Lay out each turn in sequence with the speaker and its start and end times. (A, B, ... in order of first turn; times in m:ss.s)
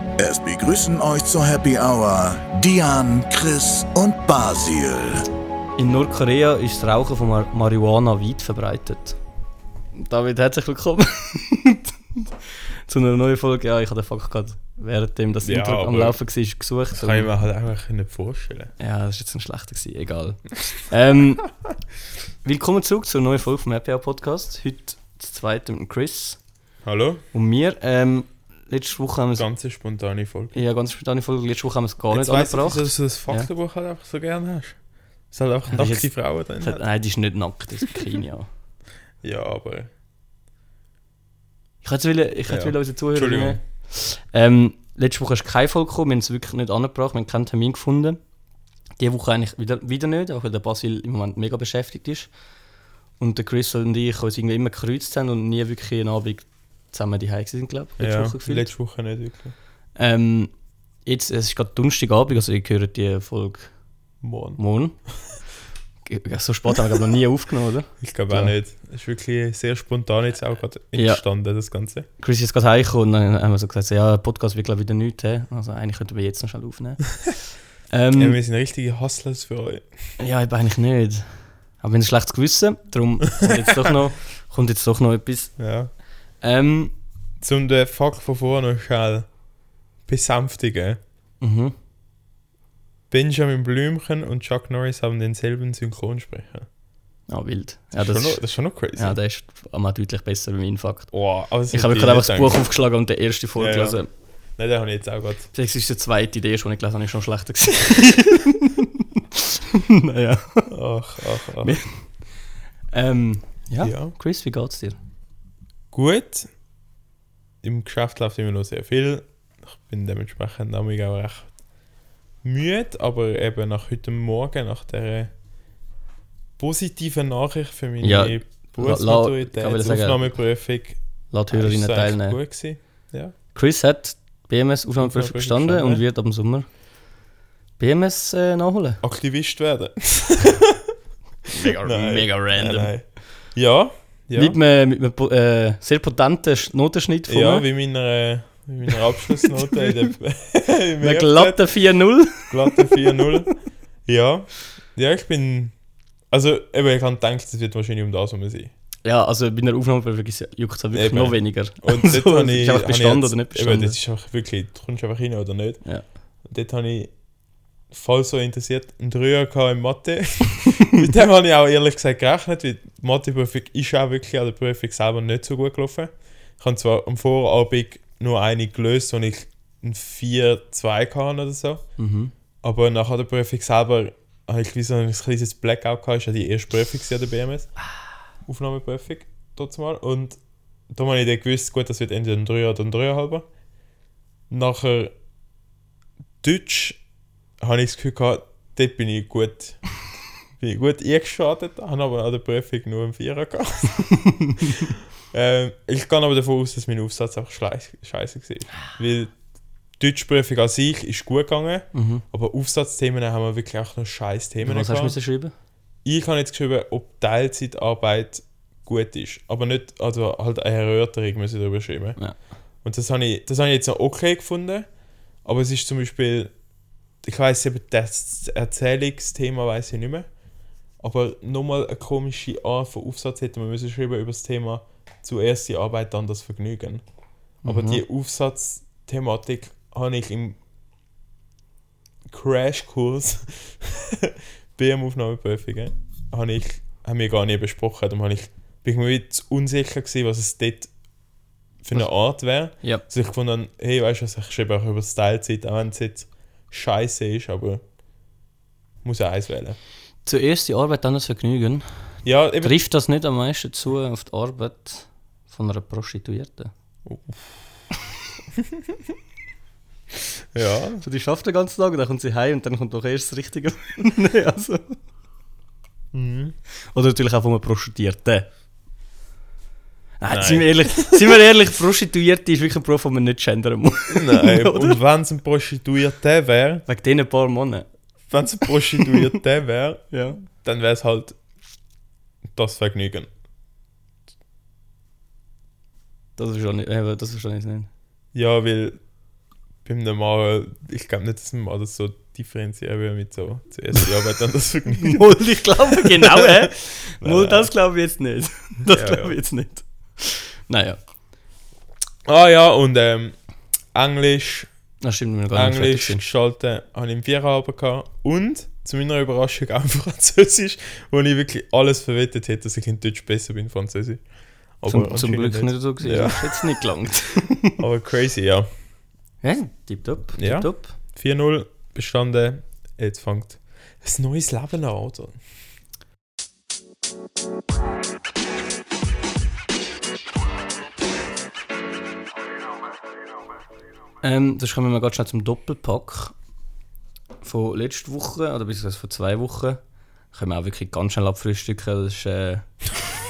0:00.2-0:05.3 A
0:05.8-0:09.2 B
0:09.9-0:17.3 B
0:15.4-0:16.2 C
0:16.9-0:18.7 C
0:18.8-0:21.5 B
0:22.4-0:26.4 B
0:26.8-0:27.2 C
0:27.3-0:29.4 B
0:29.4-0:30.6 C
0:30.5-0:33.5 B
0:32.1-0:34.8 C
0:35.3-0:36.8 C
0:35.7-0:38.5 B
0:39.2-0:39.9 C
0:41.8-0:48.2 B
0:42.5-0:43.6 C
0:49.0-0:52.3 B
0:53.2-0:58.7 B
0:58.0-0:59.5 C
1:00.0-1:00.5 B
1:01.0-1:03.7 B
1:04.2-1:04.6 C
1:04.6-1:05.0 B
1:06.0-1:08.5 B
1:08.0-1:12.1 C
1:10.9-1:11.2 B
1:12.2-1:18.4 B
1:18.1-1:19.9 C
1:20.2-1:25.5 B
1:23.4-1:23.9 C
1:25.6-1:25.9 C
1:26.4-1:26.9 B
1:27.4-1:29.3 C
1:30.1-1:31.0 C
1:31.4-1:31.7 B
1:33.1-1:36.7 C
1:37.3-1:38.4 B
1:38.0-1:39.2 C
1:39.0-1:41.1 B
1:41.1-1:42.6 C
1:41.7-1:44.1 B
1:43.6-1:44.0 C
1:44.6-1:45.5 C
1:45.5-1:50.7 B
1:50.7-1:51.8 C
1:51.6-1:52.1 B
1:52.9-1:55.0 B
1:53.8-1:54.1 C
1:55.9-1:56.5 C
1:57.6-2:01.5 C
2:02.4-2:05.3 C
2:06.6-2:11.0 C
2:08.0-2:10.3 B
2:11.3-2:12.4 B
2:11.5-2:13.3 C
2:13.5-2:16.7 B
2:15.0-2:16.0 C
2:17.8-2:19.0 B
2:19.0-2:20.9 C
2:21.5-2:22.9 B
2:21.6-2:24.6 C
2:24.4-2:27.6 B
2:27.3-2:31.7 C
2:31.0-2:33.1 B
2:32.4-2:33.5 C
2:34.0-2:35.7 C
2:36.3-2:38.7 C
2:39.0-2:44.0 B
2:40.9-2:45.8 C
2:46.4-2:47.1 C
2:47.9-3:01.8 C
3:02.0-3:02.3 B
3:02.6-3:07.7 C
3:08.4-3:10.4 C
3:10.9-3:13.5 C
3:14.5-3:15.1 C
3:16.4-3:17.0 C
3:17.6-3:19.8 C
3:20.6-3:29.3 C
3:24.2-3:24.6 B
3:30.0-3:35.2 C
3:31.9-3:32.2 B
3:34.6-3:35.5 B
3:36.0-3:42.2 C
3:42.8-3:44.9 C
3:45.4-3:46.5 C
3:47.2-3:50.3 C
3:51.0-3:57.0 C
3:57.6-3:58.0 B
3:57.6-4:00.6 C
4:02.3-4:10.9 C
4:11.8-4:17.8 C
4:19.0-4:19.8 C
4:20.2-4:21.9 B
4:22.2-4:22.8 C
4:22.6-4:26.7 B
4:27.0-4:27.6 C
4:28.5-4:29.0 C
4:30.5-4:31.0 C
4:31.0-4:35.0 B
4:36.1-4:36.5 C
4:36.9-4:38.5 B
4:40.2-4:45.0 B
4:40.3-4:41.2 C
4:44.1-4:46.8 C
4:46.8-4:47.9 B
4:48.3-4:51.4 C
4:50.1-4:50.4 B
4:52.6-4:53.3 C
4:56.4-4:57.9 B
4:58.3-4:59.0 C
4:59.8-5:05.4 C
5:05.0-5:11.0 B
5:05.9-5:07.7 C
5:08.8-5:09.4 C
5:12.2-5:13.3 C
5:13.9-5:14.7 C
5:15.0-5:16.2 B
5:15.5-5:24.2 C
5:24.8-5:26.8 C
5:24.9-5:27.8 B
5:27.8-5:28.7 C
5:29.4-5:30.9 B
5:30.4-5:35.4 C
5:44.2-5:46.3 B
5:47.4-5:49.8 B
5:50.3-5:52.9 B